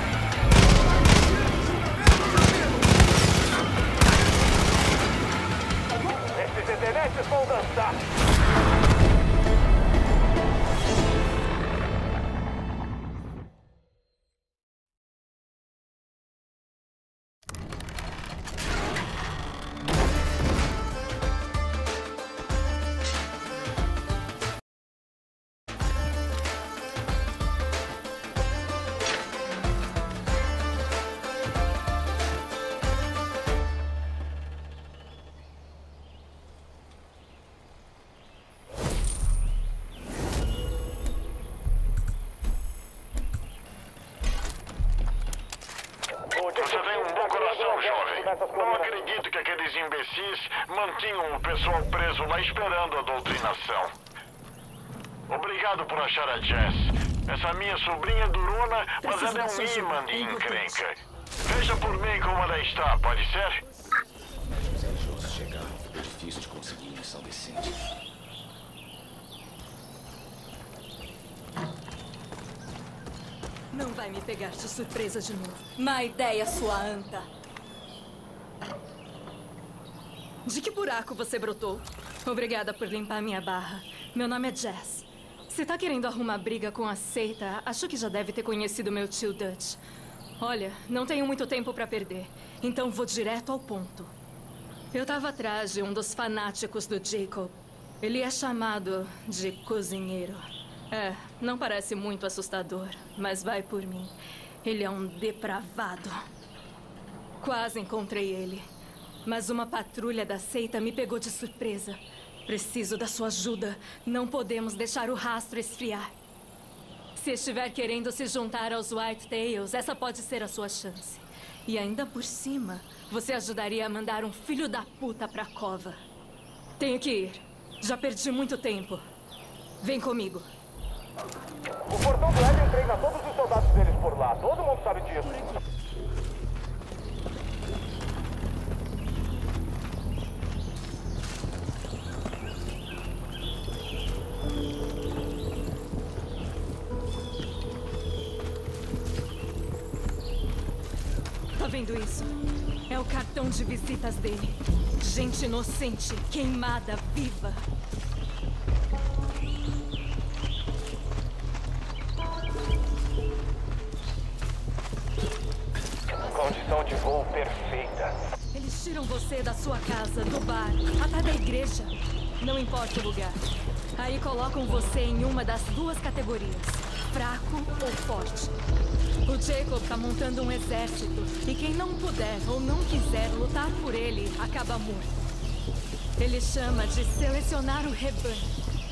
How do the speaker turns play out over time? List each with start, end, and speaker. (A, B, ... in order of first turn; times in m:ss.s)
0:06.3-0:08.0 A
0:46.3-0:49.0 A
0:46.5-0:53.9 B
0:55.3-1:03.6 B
0:59.0-1:00.8 C
1:04.6-1:07.8 D
1:13.7-1:17.3 C
1:20.4-1:29.8 C
1:30.4-1:34.1 C
1:34.9-1:46.2 C
1:47.4-1:48.6 C
1:49.2-1:56.1 C
1:57.2-2:06.0 C
2:06.8-2:09.0 C
2:09.8-2:10.5 C
2:11.9-2:15.3 A
2:15.2-2:15.6 C
2:31.5-2:32.3 C
2:32.9-2:37.6 C
2:46.2-2:46.7 C
2:46.2-2:48.1 A
2:48.5-2:53.4 C
2:54.0-2:58.6 C
2:59.2-3:05.1 C
3:06.2-3:08.5 C